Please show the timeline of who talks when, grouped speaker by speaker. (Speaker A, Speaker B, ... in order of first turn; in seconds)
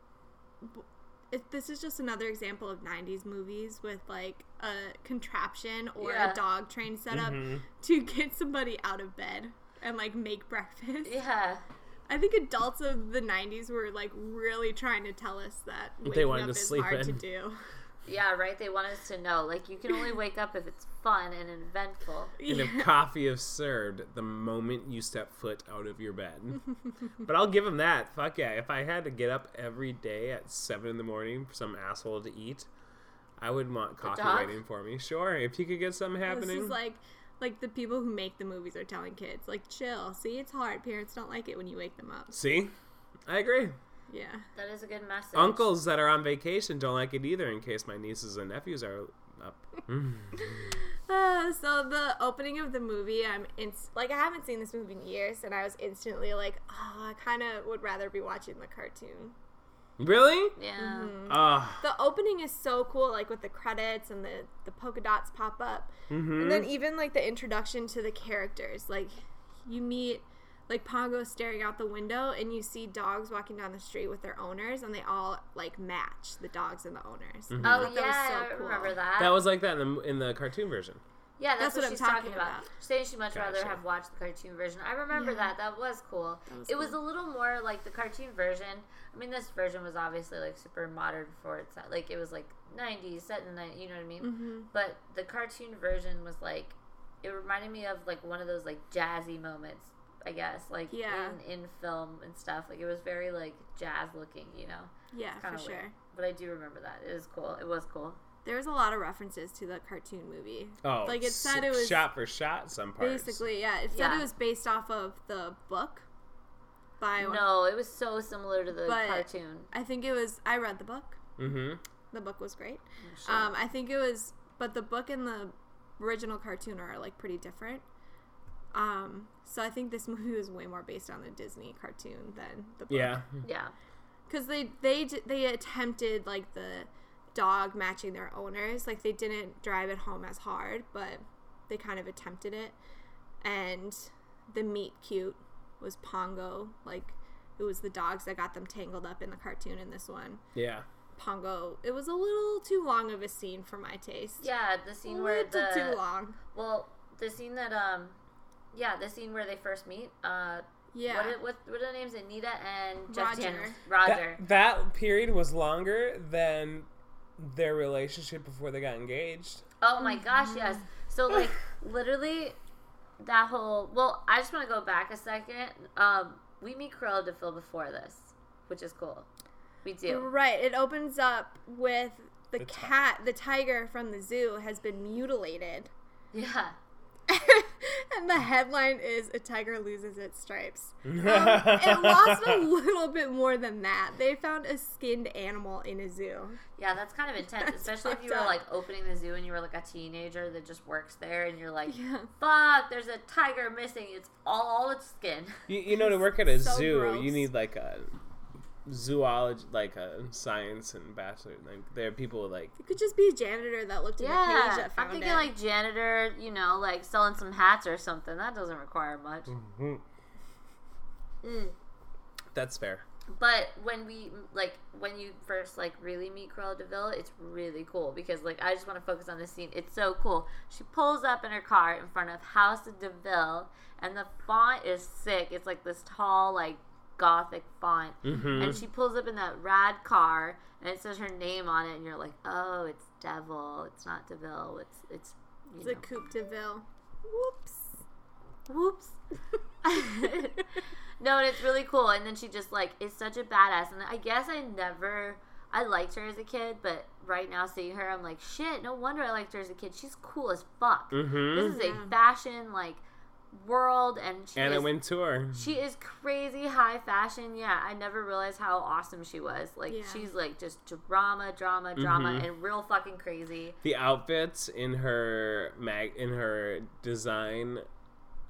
Speaker A: 0.6-11.2, 12.1-17.6, 22.4-22.9, 36.2-42.3, 44.1-44.5, 50.4-59.4, 60.8-79.0, 81.6-82.7, 85.1-85.5, 86.5-87.0, 94.2-94.7, 100.9-101.4, 105.1-106.0, 108.4-112.1, 113.0-116.1, 117.0-117.5, 118.8-121.2, 122.1-127.8, 128.7-133.2, 134.3-142.8, 143.4-150.4, 151.2-154.5, 155.1-156.4, 160.9-161.4, 163.1-163.8, 170.0-170.8, 180.1-185.9, 187.3-196.6, 197.6-198.6, 201.9-202.3, 205.9-207.5, 212.8-215.5, 245.8-248.0, 261.5-262.1, 269.9-270.3
Speaker B: 6.0-6.4, 11.1-11.6, 18.1-22.3, 34.0-34.6, 44.5-45.7, 60.6-61.1, 77.6-79.4, 81.4-108.2, 113.9-114.3, 117.2-119.7, 123.0-123.6, 133.4-133.7, 154.4-156.0, 156.5-158.2, 158.7-164.4, 169.8-172.6, 173.2-179.3, 179.8-180.3, 186.3-186.8, 196.8-205.6, 214.2-219.5, 221.4-221.8, 223.3-246.1, 248.7-249.2, 249.8-250.7, 251.2-264.9, 265.5-273.8
Speaker C: 7.1-7.6, 16.0-17.2, 22.5-26.6, 27.2-32.7, 33.4-36.8, 42.3-42.7, 43.3-43.8, 45.4-50.8, 60.0-60.6, 61.3-61.8, 66.1-66.7, 77.5-77.9, 79.2-81.0, 83.3-83.8, 110.8-113.5, 121.4-121.8, 132.9-133.4, 150.6-150.9, 164.0-169.6, 182.6-183.0, 191.1-192.6, 205.7-208.2, 208.8-212.8, 219.5-220.0, 222.5-223.1, 238.2-238.8, 261.1-261.8, 264.6-265.7, 272.0-272.5, 273.8-277.9